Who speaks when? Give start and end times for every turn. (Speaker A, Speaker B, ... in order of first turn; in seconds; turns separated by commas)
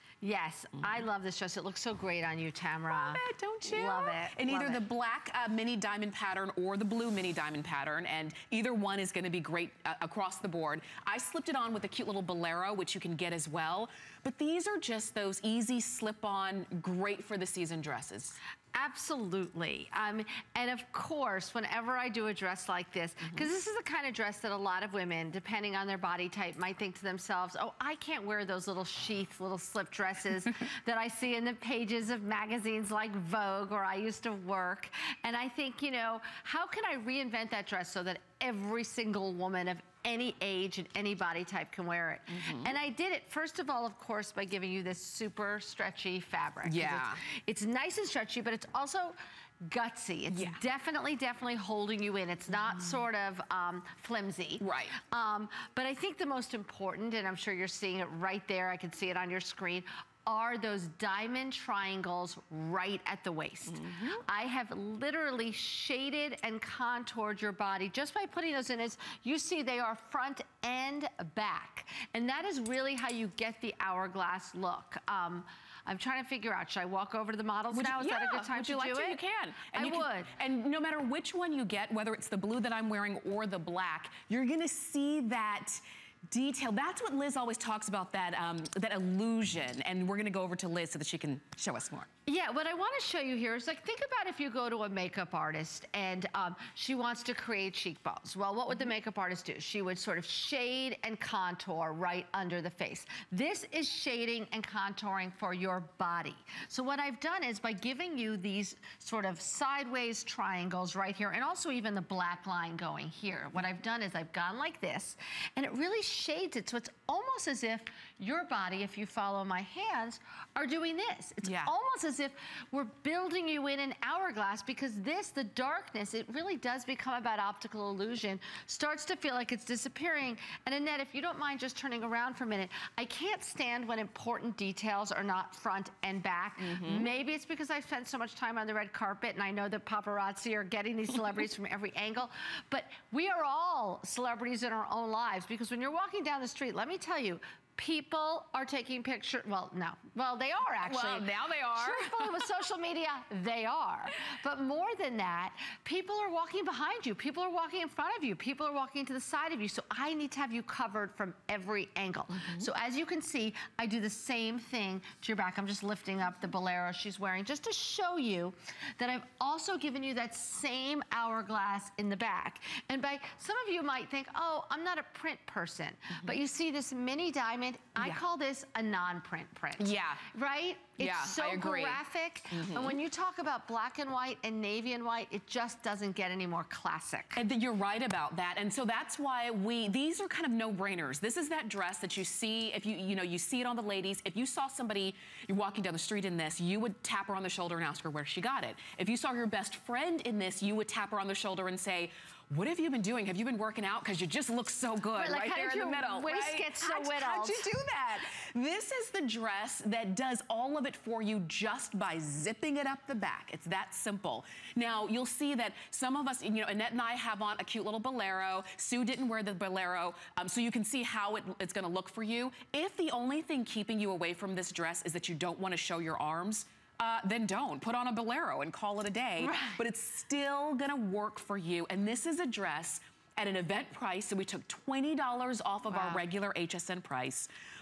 Speaker A: 0.2-4.8, Speaker B: 2.9-18.4, Speaker A: 18.8-49.1, Speaker B: 42.3-42.7, Speaker B: 46.6-47.2, Speaker A: 49.7-80.3, Speaker B: 50.3-50.6, Speaker B: 54.6-55.0, Speaker B: 63.7-64.2, Speaker B: 77.7-92.1, Speaker A: 92.3-187.4, Speaker B: 121.4-121.7, Speaker B: 136.6-137.1, Speaker B: 150.8-152.6, Speaker B: 179.8-180.3, Speaker B: 181.0-183.0, Speaker B: 187.4-237.5, Speaker A: 205.1-207.7, Speaker A: 229.4-229.8, Speaker A: 235.9-236.2